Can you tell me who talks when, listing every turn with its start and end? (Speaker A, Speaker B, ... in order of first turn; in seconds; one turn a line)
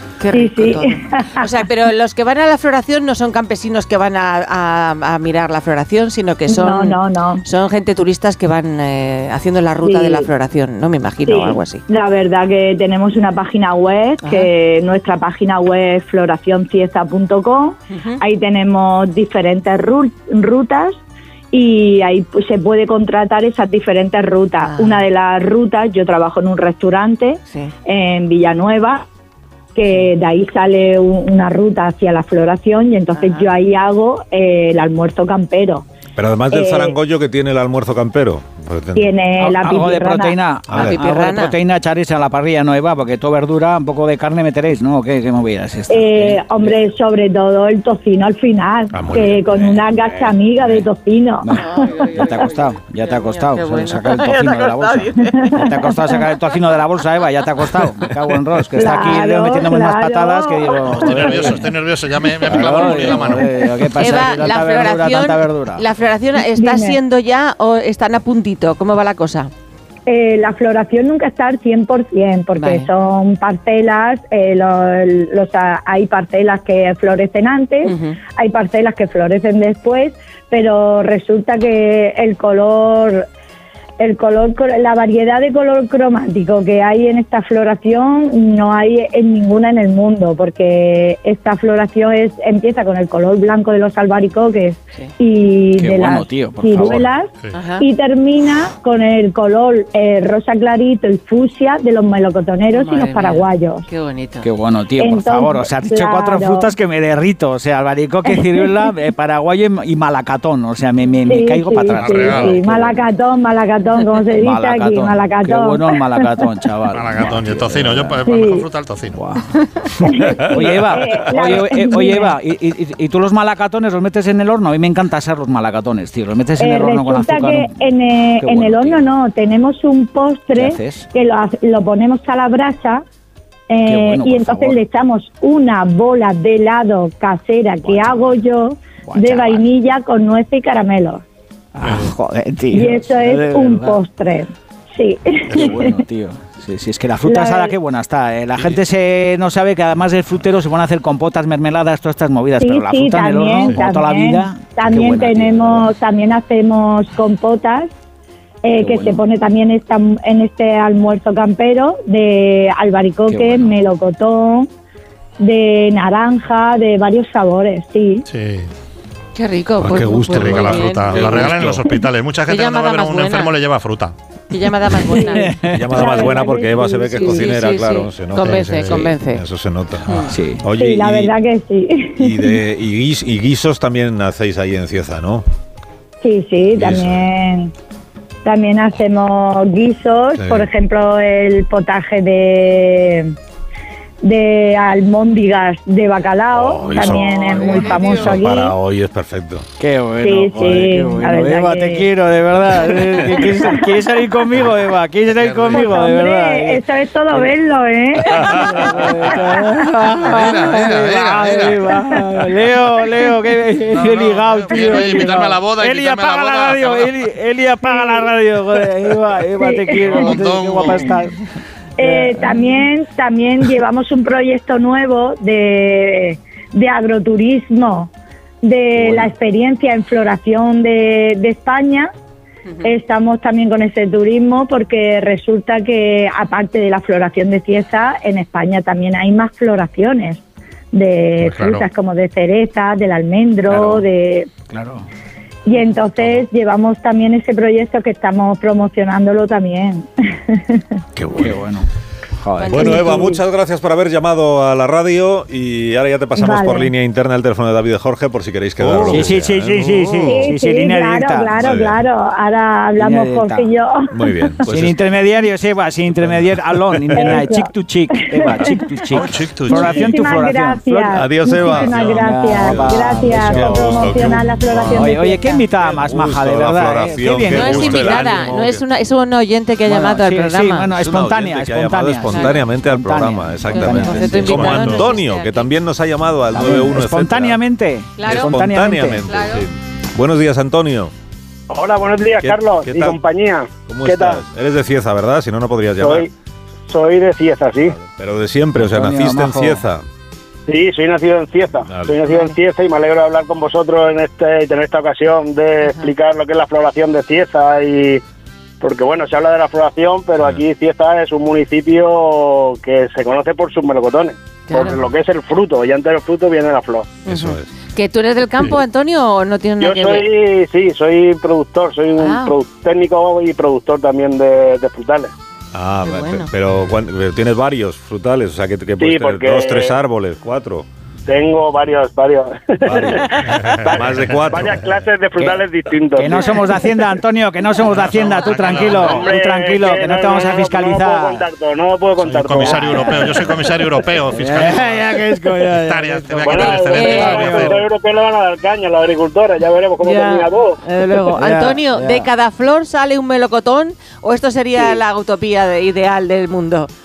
Speaker A: 0.2-11.8
Speaker B: 0.3-1.4
Speaker B: 6.5-7.4
Speaker B: 9.8-10.2
Speaker B: 11.2-21.0
Speaker A: 14.2-14.5
Speaker A: 17.9-18.2
Speaker B: 21.5-29.0
Speaker A: 24.6-25.0
Speaker A: 27.5-27.7
Speaker B: 29.7-35.9
Speaker A: 33.1-33.5
Speaker C: 36.1-39.1
Speaker B: 36.5-36.9
Speaker B: 39.0-40.4
Speaker D: 39.4-46.9
Speaker C: 40.7-41.0
Speaker A: 40.7-41.5
Speaker B: 45.9-52.5
Speaker C: 48.9-49.9
Speaker D: 51.4-61.7
Speaker A: 51.5-55.5
Speaker B: 55.2-56.2
Speaker B: 58.7-61.6
Speaker E: 60.9-63.5
Speaker D: 62.4-65.8
Speaker A: 64.0-69.5
Speaker B: 66.5-67.0
Speaker B: 70.1-83.2
Speaker A: 72.5-72.9
Speaker A: 77.8-78.2
Speaker B: 84.0-103.8
Speaker D: 95.7-97.1
Speaker A: 97.5-97.8
Speaker A: 102.7-104.5
Speaker D: 104.4-113.0
Speaker B: 105.0-106.7
Speaker B: 108.3-108.9
Speaker B: 111.3-116.4
Speaker E: 111.9-112.6
Speaker D: 114.3-118.2
Speaker E: 116.9-119.2
Speaker B: 118.2-118.6
Speaker D: 119.1-119.4
Speaker B: 120.0-122.3
Speaker D: 120.2-127.8
Speaker B: 126.6-133.0
Speaker D: 128.4-129.1
Speaker D: 130.5-131.1
Speaker B: 133.7-141.2
Speaker D: 133.8-134.8
Speaker D: 137.8-138.4
Speaker D: 139.0-139.7
Speaker D: 141.7-144.0
Speaker E: 141.8-142.1
Speaker B: 142.7-146.0
Speaker E: 145.5-145.8
Speaker D: 145.5-155.9
Speaker B: 147.2-147.8
Speaker B: 152.6-157.9
Speaker B: 158.6-164.7
Speaker D: 158.8-159.2
Speaker D: 163.2-163.8
Speaker B: 165.4-168.2
Speaker E: 168.3-168.7
Speaker A: 169.3-171.7
Speaker C: 169.8-171.9
Speaker E: 169.9-174.1
Speaker A: 172.5-173.5
Speaker A: 174.5-175.5
Speaker B: 175.1-177.5
Speaker D: 175.3-175.9
Speaker C: 175.7-181.3
Speaker A: 177.2-179.4
Speaker E: 178.4-178.9
Speaker A: 180.1-180.3
Speaker D: 180.3-180.6
Speaker B: 180.7-182.6
Speaker C: 182.2-185.4
Speaker B: 186.2-187.7
Speaker C: 186.8-187.3
Speaker B: 188.4-193.3
Speaker C: 190.4-190.7
Speaker B: 194.2-198.7
Speaker C: 196.5-199.7
Speaker A: 197.1-198.2
Speaker D: 199.8-207.5
Speaker B: 200.2-202.1
Speaker B: 202.8-204.0
Speaker E: 205.3-205.9
Speaker B: 205.7-209.0
Speaker D: 208.4-221.3
Speaker E: 210.2-212.0
Speaker E: 213.9-217.1
Speaker B: 214.9-215.3
Speaker B: 217.8-218.3
Speaker B: 219.6-220.3
Speaker E: 220.0-221.1
Speaker B: 222.0-228.1
Speaker D: 222.0-222.8
Speaker B: 228.6-232.1
Speaker D: 228.9-229.3
Speaker B: 232.8-240.4
Speaker B: 240.9-244.5
Speaker E: 241.4-241.9
Speaker D: 243.7-244.0
Speaker D: 244.7-245.0
Speaker B: 245.7-251.0
Speaker D: 251.3-251.9
Speaker D: 252.4-253.3
Speaker A: 252.6-253.1
Speaker C: 252.7-260.4
Speaker B: 252.8-253.4
Speaker B: 256.4-256.9
Speaker D: 258.8-261.6
Speaker E: 259.7-260.2
Speaker B: 260.3-264.3
Speaker C: 261.6-262.0
Speaker D: 263.0-263.7
Speaker C: 264.1-265.0
Speaker D: 264.6-274.3
Speaker C: 266.1-267.4
Speaker B: 267.1-267.7
Speaker B: 268.2-268.9
Speaker E: 269.1-270.1
Speaker B: 269.7-275.7
Speaker C: 271.1-275.1
Speaker D: 274.9-278.3
Speaker C: 275.8-278.8
Speaker A: 277.5-280.9
Speaker D: 279.8-285.0
Speaker C: 280.9-287.6
Speaker A: 282.3-282.6
Speaker A: 283.7-285.7
Speaker D: 286.5-289.2
Speaker A: 288.2-288.5
Speaker C: 288.2-291.1
Speaker A: 289.3-289.6
Speaker F: 291.7-294.4
Speaker C: 292.4-293.2
Speaker C: 293.9-296.3
Speaker F: 296.0-296.3
Speaker F: 296.9-298.0
Speaker C: 297.9-300.0
Speaker D: 298.8-299.8
Speaker F: 300.7-308.2
Speaker C: 301.9-302.2
Speaker A: 302.3-302.5
Speaker A: 305.8-306.1
Speaker F: 308.8-317.2
Speaker A: 314.7-315.0
Speaker C: 317.2-317.7
Speaker A: 317.2-320.3
Speaker F: 319.8-325.3
Speaker A: 322.2-322.5
Speaker C: 325.7-330.9
Speaker A: 326.0-326.5
Speaker F: 329.0-329.9
Speaker F: 331.3-333.3
Speaker C: 332.9-333.2
Speaker A: 333.2-333.6
Speaker E: 333.5-334.7
Speaker F: 333.8-336.5
Speaker C: 333.8-334.9
Speaker D: 336.1-341.4
Speaker E: 337.9-339.3
Speaker F: 339.1-343.2
Speaker E: 342.2-347.8
Speaker D: 342.6-343.3
Speaker D: 344.3-347.8
Speaker F: 346.4-350.8
Speaker A: 346.6-347.7
Speaker A: 350.0-356.9
Speaker D: 351.1-352.3